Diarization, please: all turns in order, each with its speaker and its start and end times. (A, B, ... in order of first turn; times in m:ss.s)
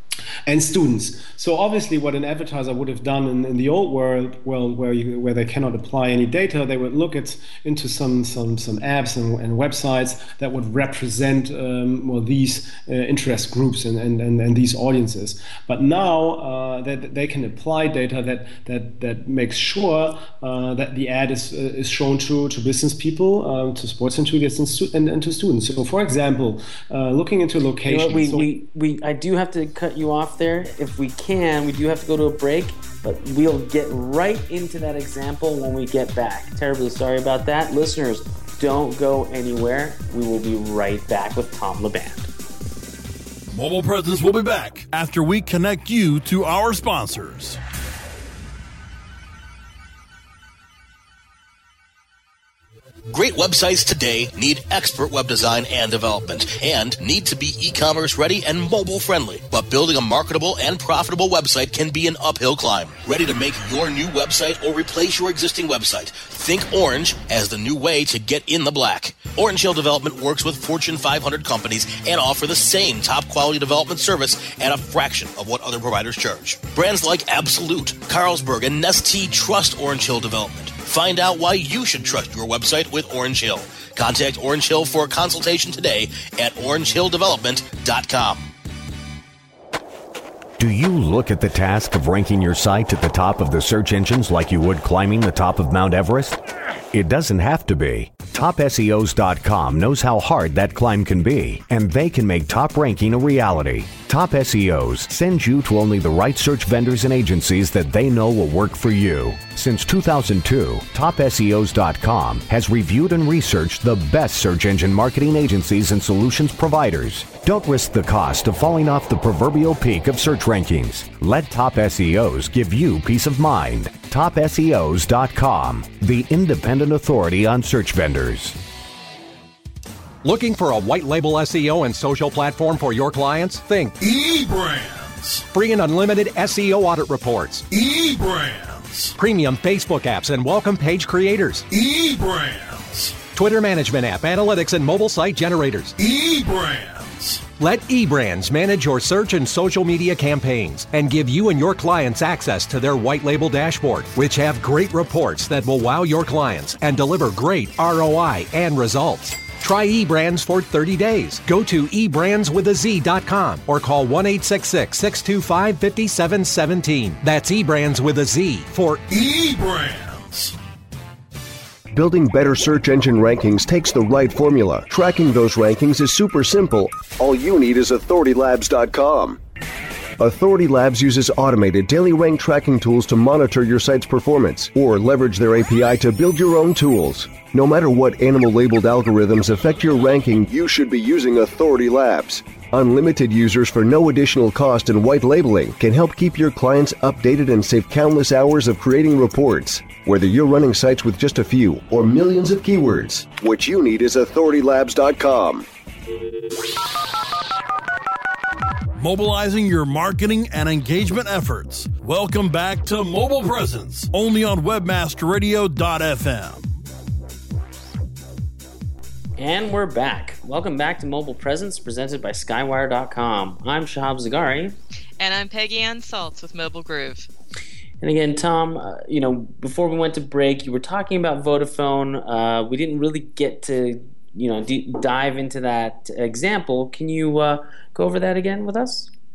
0:00.5-0:28.5 A
0:27.9-0:42.3 B
0:43.5-0:47.6 C
0:53.1-1:28.5 D
1:30.6-1:36.4 E
1:36.9-2:08.6 E
2:10.2-2:14.0 F
2:14.0-2:15.5 C
2:15.5-2:17.7 F
2:17.7-2:19.2 C
2:19.2-2:21.7 F
2:21.7-2:23.2 C
2:23.3-2:26.0 F
2:26.0-2:27.5 C
2:27.6-2:49.0 F
2:49.1-2:50.6 C
2:51.9-2:59.4 G
3:00.2-3:25.7 G
3:29.0-3:36.8 C
3:39.4-3:44.8 B
3:45.2-3:47.3 H
3:48.0-3:59.1 B